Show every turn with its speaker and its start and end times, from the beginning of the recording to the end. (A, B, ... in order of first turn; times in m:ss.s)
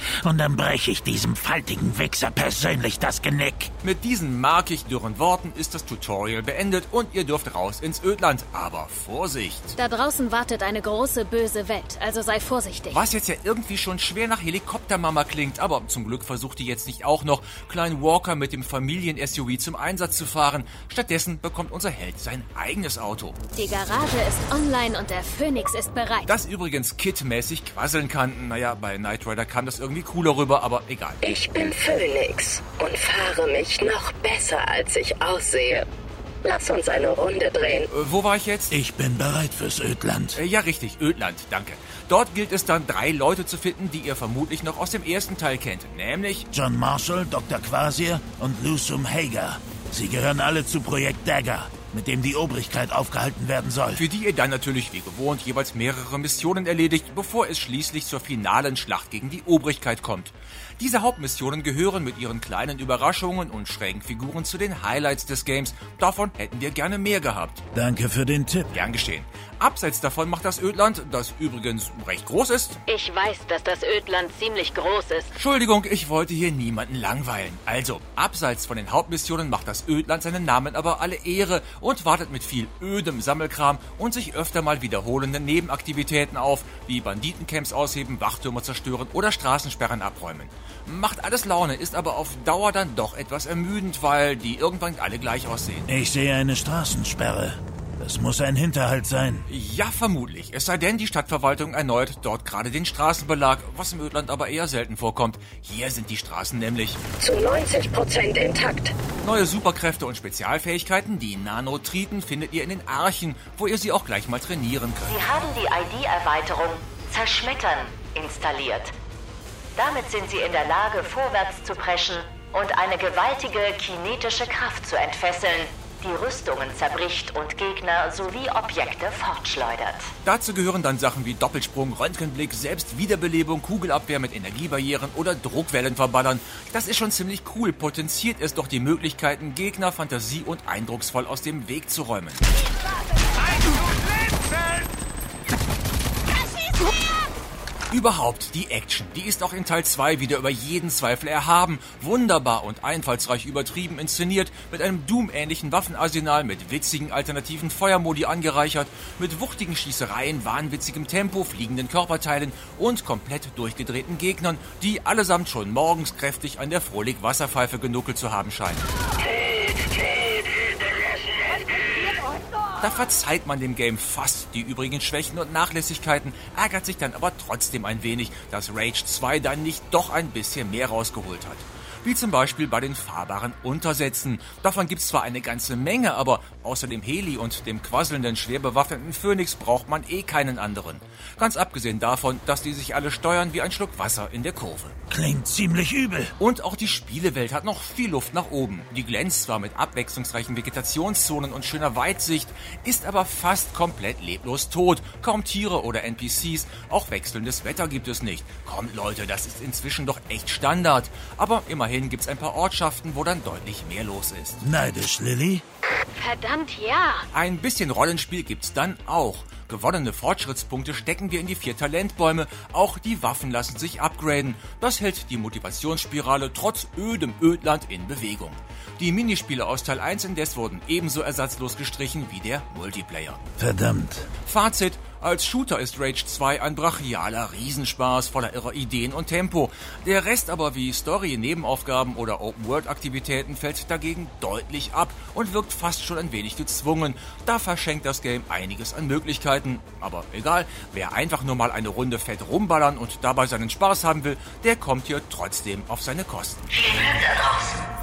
0:00.2-0:03.7 A
0:03.8-0:09.8 B
0:09.8-0:13.0 C
0:12.9-0:23.4 B
0:23.5-0:26.3 C
0:26.3-0:31.2 B
0:31.2-0:35.9 D
0:36.4-0:37.9 D
0:37.9-0:38.7 B
0:38.7-0:40.4 A
0:40.3-0:46.5 B
0:46.5-0:54.0 A
0:54.0-1:07.6 B
1:07.7-1:08.7 A
1:08.7-1:12.8 B
1:12.9-1:15.1 E
1:15.3-1:35.9 B
1:35.9-1:39.4 A
1:39.5-1:47.0 B
1:47.2-1:49.0 D
1:49.2-1:55.2 B
1:55.1-1:58.9 E
1:59.8-2:10.1 E
2:10.2-2:22.4 B
2:27.9-2:48.9 B
2:52.8-3:14.9 B
3:15.1-3:16.3 A
3:16.4-3:34.6 B
3:34.6-3:35.6 A
3:36.2-3:37.3 C
3:37.3-3:53.4 B
3:53.6-3:54.3 A
3:54.4-4:16.6 B
4:17.0-4:17.7 E